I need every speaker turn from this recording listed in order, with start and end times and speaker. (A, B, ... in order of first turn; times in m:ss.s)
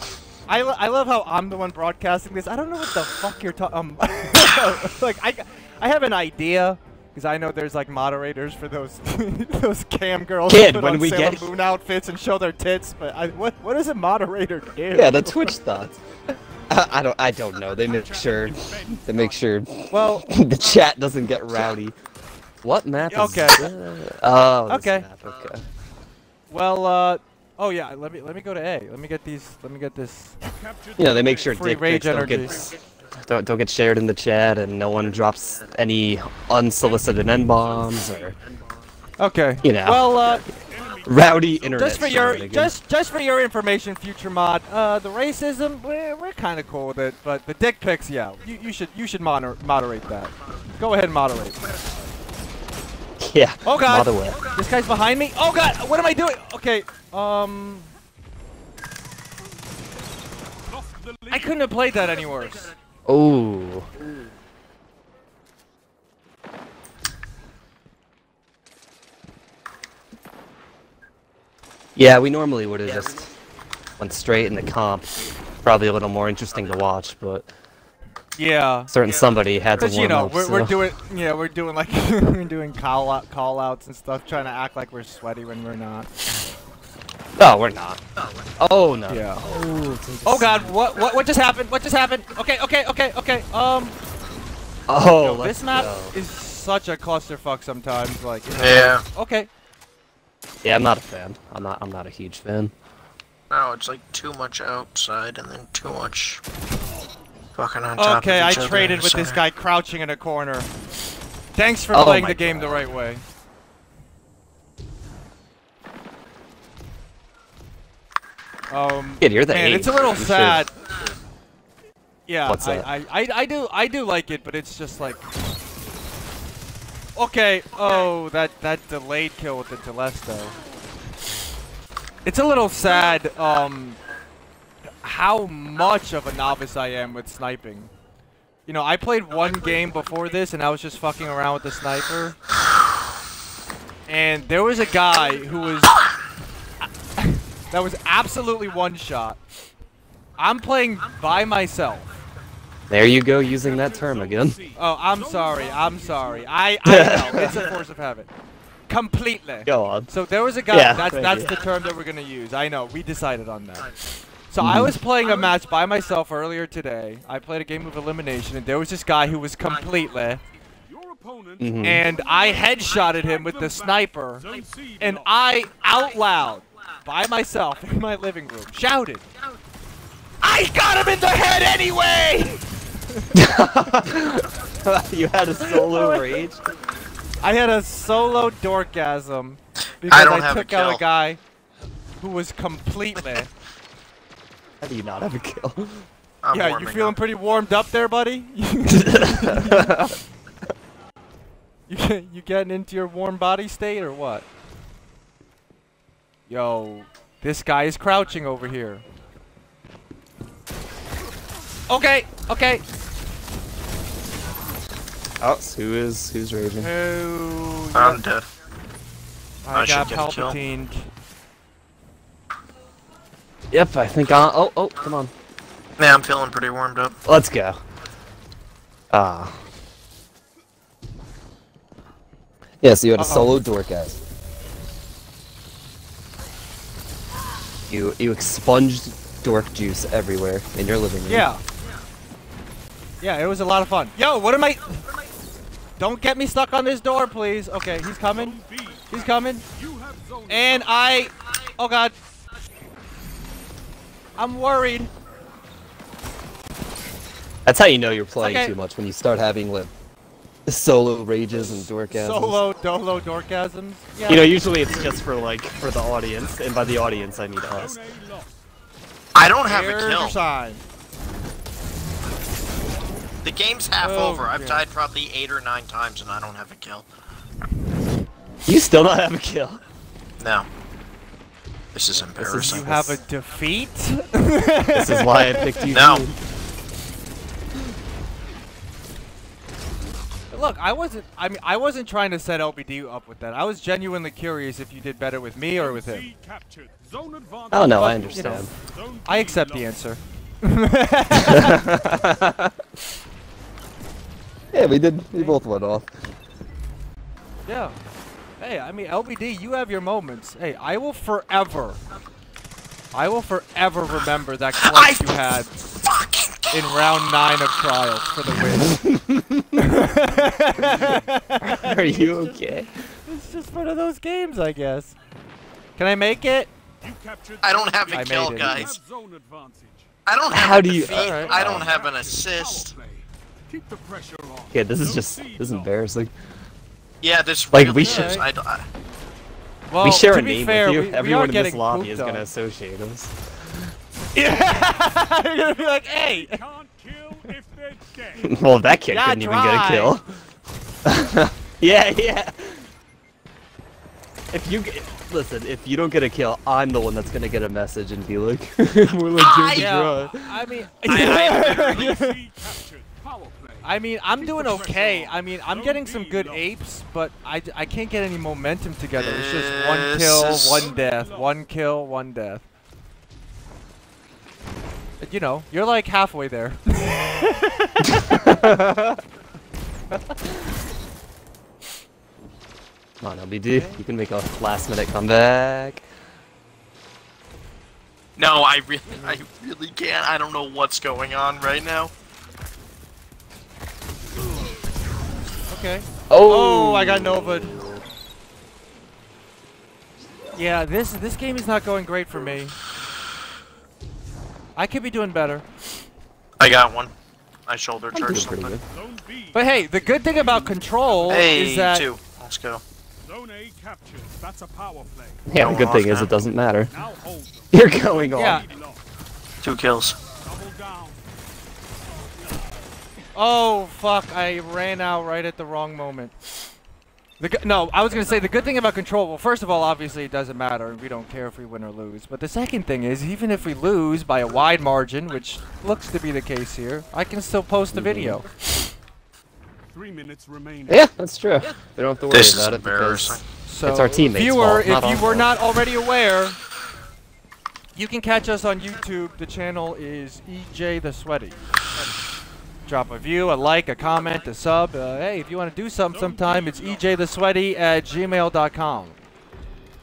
0:00.5-0:15.5 A
0:10.5-0:11.5 B
0:14.9-0:16.0 B
0:16.7-0:22.0 B
0:17.8-0:19.4 C
0:19.9-0:20.3 A
0:22.6-0:25.6 B
0:23.1-0:23.7 A
0:24.7-0:25.1 A
0:26.5-0:30.4 A
0:30.6-0:31.6 C
0:31.0-0:38.4 B
0:31.5-0:32.7 A
0:39.2-0:40.4 A
0:39.6-0:40.4 B
0:40.7-0:42.0 C
0:41.0-0:42.7 B
0:41.7-0:51.6 A
0:53.2-0:54.4 B
0:53.6-0:57.9 A
1:00.7-1:01.6 C
1:01.3-1:02.7 A
1:03.1-1:03.9 B
1:12.0-1:13.3 B
1:14.0-1:17.5 B
1:18.4-1:18.9 A
1:18.9-1:20.8 B
1:19.8-1:26.4 A
1:27.4-1:28.0 B
1:28.6-1:30.7 B
1:29.1-1:29.4 A
1:30.2-1:34.0 A
1:34.9-1:36.1 B
1:35.2-1:39.5 A
1:38.6-1:39.0 D
1:40.6-1:42.7 B
1:43.5-1:46.4 D
1:47.6-1:49.4 D
1:48.0-1:50.7 A
1:51.5-1:53.2 A
1:51.9-1:52.9 B
1:58.7-2:00.7 A
1:59.2-2:00.6 B
2:02.3-2:05.2 A
2:02.5-2:02.9 B
2:07.2-2:10.5 A
2:12.2-2:14.0 A
2:15.0-2:17.9 A
2:18.7-2:22.4 A
2:24.1-2:26.0 A
2:27.2-2:29.4 A
2:30.4-2:32.2 A
2:32.9-2:34.6 B
2:33.6-2:36.6 C
2:34.7-2:38.3 A
2:36.8-2:37.8 B
2:38.9-2:43.9 A
2:39.6-2:40.1 B
2:40.7-2:41.5 B
2:44.4-2:50.4 A
2:44.6-2:45.0 B
2:50.9-2:51.8 C
2:51.6-2:52.0 B
2:51.8-2:54.4 A
2:52.4-2:55.3 C
2:55.0-2:59.2 A
3:00.4-3:03.3 A
3:03.3-3:06.6 B
3:05.9-3:06.3 A
3:07.4-3:11.4 A
3:10.1-3:11.0 D
3:12.2-3:13.5 A
3:14.8-3:16.1 B
3:16.4-3:17.2 D
3:16.5-3:20.1 A
3:18.9-3:20.1 B
3:21.9-3:24.4 A
3:26.5-3:29.0 A
3:31.9-3:32.8 A
3:35.4-3:36.9 B
3:36.8-3:38.2 A
3:37.9-3:38.4 D
3:39.6-3:41.1 A
3:39.7-3:40.6 D
3:43.7-3:45.3 B
3:46.0-3:47.2 D
3:47.2-3:47.8 B
3:49.1-3:49.6 B
3:52.8-3:54.2 B
3:53.2-3:53.6 A
3:57.9-4:01.5 B
4:01.3-4:01.6 A
4:03.2-4:05.0 A
4:06.0-4:09.6 A
4:08.2-4:09.2 C
4:09.7-4:11.0 C
4:10.5-4:12.2 A
4:14.4-4:15.1 A
4:17.6-4:19.9 B
4:18.4-4:18.7 A
4:20.6-4:22.6 B
4:22.1-4:24.5 A
4:24.3-4:28.0 B
4:27.7-4:28.5 C
4:29.3-4:30.4 D
4:29.6-4:30.8 A
4:33.4-4:37.1 D
4:34.0-4:34.8 A
4:38.6-4:39.8 B
4:40.4-4:40.7 D
4:41.9-4:42.8 D
4:42.4-4:43.2 B
4:42.4-4:45.9 A
4:44.9-4:46.4 B
4:45.9-4:46.3 D
4:50.5-4:56.3 A
4:55.8-4:59.9 C
4:57.7-4:58.7 B
4:57.9-4:58.7 A
4:59.3-5:01.8 A
5:01.3-5:02.8 B
5:04.7-5:06.1 B
5:07.6-5:08.0 A
5:08.6-5:12.0 A
5:13.1-5:15.7 A
5:14.9-5:15.3 D
5:16.0-5:16.7 D
5:16.7-5:19.0 A
5:18.7-5:19.8 B
5:19.8-5:25.1 A
5:20.8-5:21.1 C
5:21.6-5:23.0 B
5:26.0-5:26.7 A
5:27.0-5:30.1 C
5:27.6-5:28.9 D
5:28.1-5:28.9 A
5:30.2-5:32.9 D
5:30.5-5:31.9 B
5:31.1-5:31.5 A
5:31.4-5:35.9 C
5:34.7-5:36.3 B
5:37.2-5:38.8 D
5:37.7-5:38.4 B
5:37.9-5:38.5 A
5:39.9-5:42.5 A
5:40.0-5:43.3 B
5:44.3-5:46.6 A
5:46.1-5:48.5 C
5:48.4-5:50.2 B
5:49.1-5:50.2 A
5:51.0-5:52.9 B
5:54.5-6:00.7 B
5:59.3-6:00.1 D
5:59.7-6:02.4 A
6:01.1-6:02.1 D
6:01.1-6:06.6 C
6:03.8-6:12.6 A
6:09.2-6:10.9 D
6:10.7-6:11.5 C
6:15.2-6:18.4 A
6:18.2-6:19.2 B
6:23.2-6:26.0 B
6:23.7-6:24.0 A
6:28.4-6:32.1 D
6:29.1-6:29.4 A
6:35.7-6:37.8 A
6:36.3-6:38.0 B
6:40.5-6:42.8 A
6:44.8-6:45.6 A
6:46.6-6:47.1 D
6:47.7-6:48.8 D
6:48.1-6:48.8 B
6:48.9-6:50.4 C
6:49.5-6:52.0 A
6:51.3-6:52.8 D
6:53.2-6:55.5 C
6:55.5-6:56.9 B
6:55.6-6:56.3 D
6:56.9-6:59.0 C
6:57.7-6:58.6 B
6:58.3-6:58.7 A
6:59.6-7:00.2 D
7:00.4-7:01.2 C
7:03.3-7:06.3 A
7:07.4-7:18.9 A
7:17.9-7:18.4 B
7:19.9-7:21.0 C
7:20.9-7:25.5 B
7:22.3-7:23.4 D
7:23.6-7:26.6 A
7:28.0-7:31.6 A
7:32.8-7:39.2 A
7:36.1-7:37.0 C